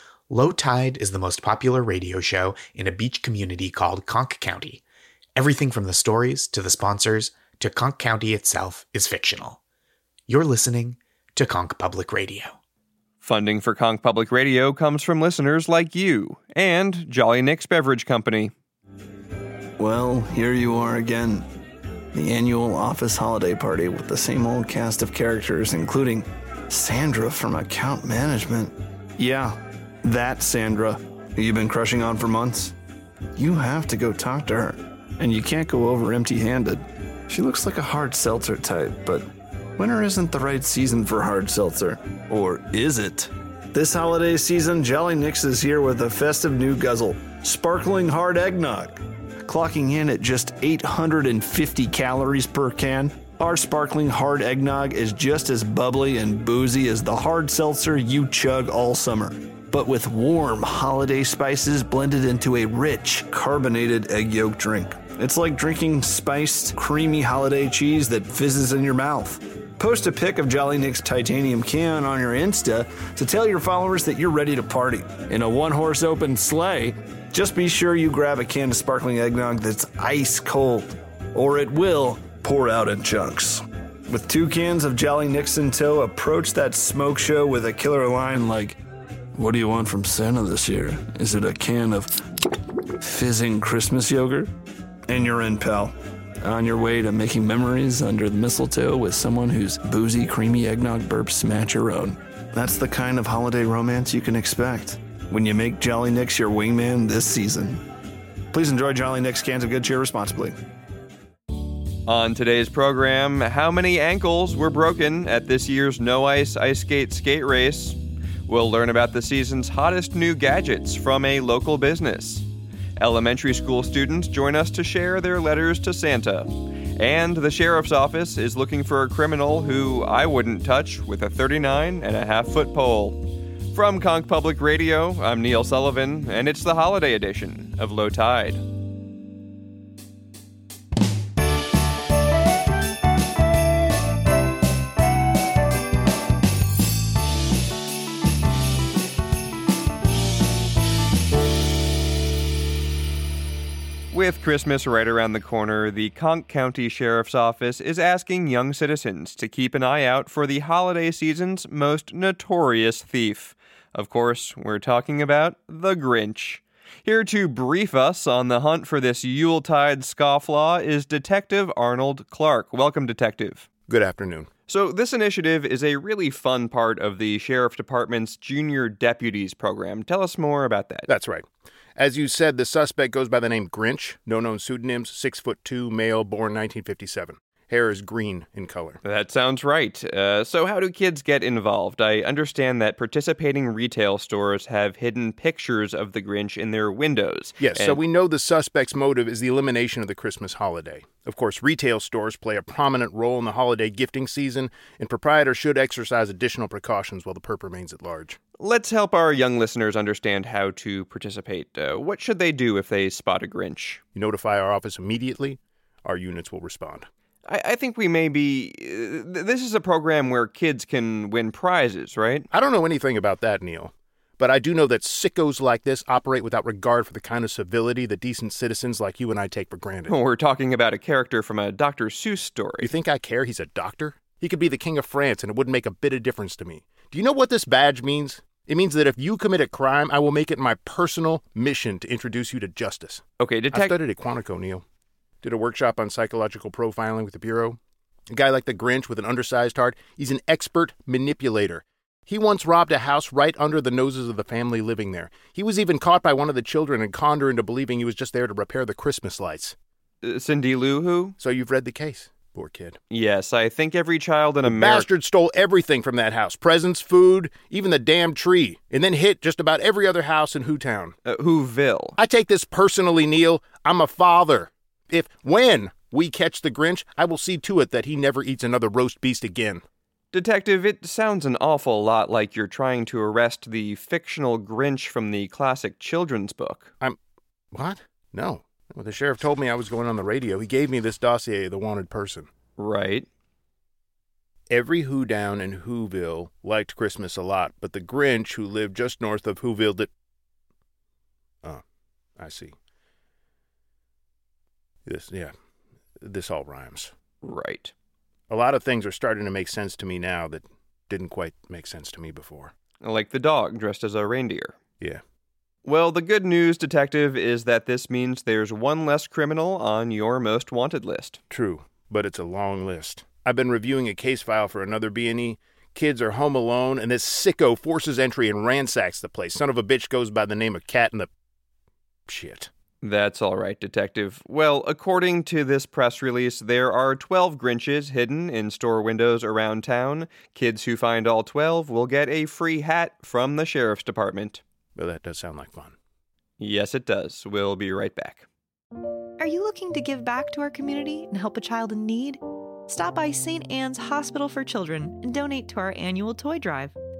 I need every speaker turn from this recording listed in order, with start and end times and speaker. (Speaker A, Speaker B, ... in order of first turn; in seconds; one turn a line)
Speaker A: 0.3-4.8
Speaker A: 5.3-9.6
Speaker A: 10.3-12.6
Speaker B: 13.2-18.5
Speaker C: 19.8-21.4
Speaker C: 22.1-32.7
Speaker C: 33.4-88.8
Speaker C: 89.3-92.2
Speaker C: 93.0-94.5
Speaker C: 95.1-107.8
Speaker C: 108.5-110.5
Speaker B: 112.1-122.4
Speaker B: 123.0-138.6
Speaker B: 154.1-173.7
Speaker D: 173.9-174.5
Speaker B: 174.7-181.1
Speaker D: 181.1-189.0
Speaker B: 189.0-198.0
Speaker D: 197.6-208.4
Speaker B: 208.6-214.0
Speaker D: 214.1-217.1
Speaker B: 217.4-222.5
Speaker D: 222.5-230.1
Speaker B: 230.1-232.9
Speaker D: 232.8-244.8
Speaker B: 243.4-243.9
Speaker D: 245.4-247.8
Speaker D: 248.3-259.8
Speaker B: 260.2-261.3
Speaker D: 261.4-263.0
Speaker B: 263.1-265.1
Speaker D: 264.6-271.1
Speaker B: 271.2-272.1
Speaker D: 272.2-279.8
Speaker B: 280.3-286.9
Speaker D: 287.7-292.5
Speaker B: 292.8-293.3
Speaker D: 294.7-300.1
Speaker D: 302.4-302.8
Speaker D: 305.0-305.5
Speaker D: 306.2-307.1
Speaker B: 307.4-307.9
Speaker D: 308.5-312.7
Speaker B: 313.0-314.7
Speaker B: 315.8-321.4
Speaker D: 321.5-331.3
Speaker D: 332.3-332.7
Speaker B: 333.0-344.6
Speaker D: 344.9-345.9
Speaker B: 346.6-348.4
Speaker E: 349.4-356.9